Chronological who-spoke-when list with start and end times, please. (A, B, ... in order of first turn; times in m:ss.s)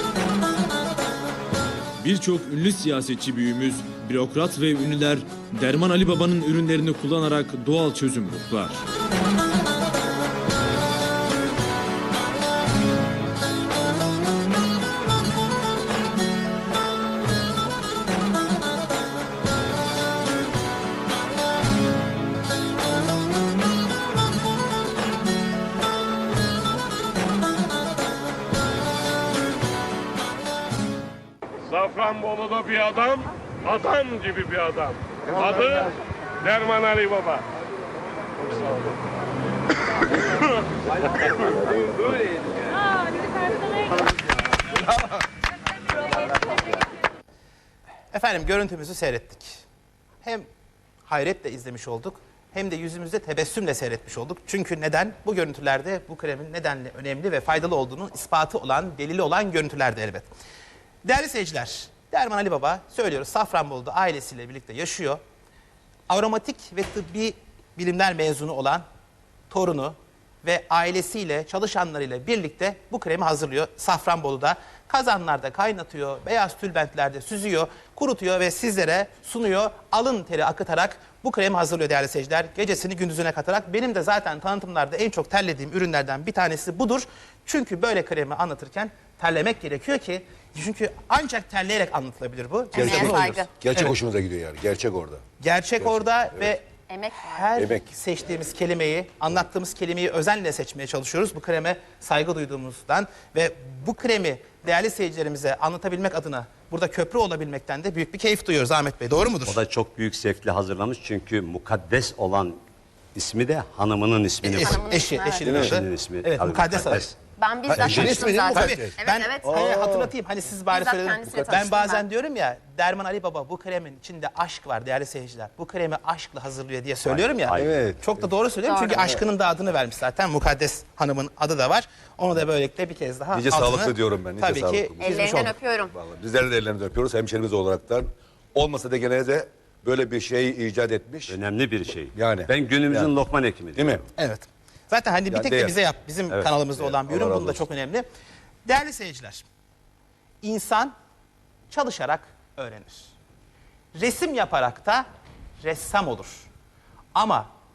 0:02.0-0:08.8 A
0:31.7-0:35.9 B
0:36.4-0:37.4 B
0:48.1-0:49.6 C
0:51.1-1:00.3 C
1:01.0-1:05.2 C
1:06.1-1:08.8 C
1:09.5-1:33.9 C
1:32.7-1:33.5 D
1:32.8-1:35.2 E
1:35.4-1:49.6 C
1:35.8-1:36.6 E
1:36.9-1:37.5 D
1:37.6-1:37.8 E
1:49.4-1:52.6 F
1:53.2-1:54.9 F
1:54.4-1:57.1 C
1:54.6-1:55.6 D
1:55.4-1:55.8 E
1:55.6-1:57.1 F
1:57.4-1:59.7 D
1:57.7-1:58.9 E
1:57.8-2:15.5 C
1:57.8-1:58.2 F
1:59.4-2:00.1 E
2:00.7-2:02.0 D
2:07.0-2:07.8 F
2:07.5-2:08.2 E
2:08.6-2:09.2 D
2:13.3-2:21.4 E
2:15.0-2:15.9 D
2:21.3-2:24.0 F
2:22.1-2:23.1 E
2:23.8-2:24.0 E
2:24.2-2:28.1 C
2:25.3-2:25.8 E
2:26.8-2:27.6 E
2:28.7-2:29.5 C
2:30.4-2:30.9 C
2:31.7-2:33.1 C
2:34.0-2:35.0 C
2:35.6-2:36.5 C
2:37.2-2:37.5 C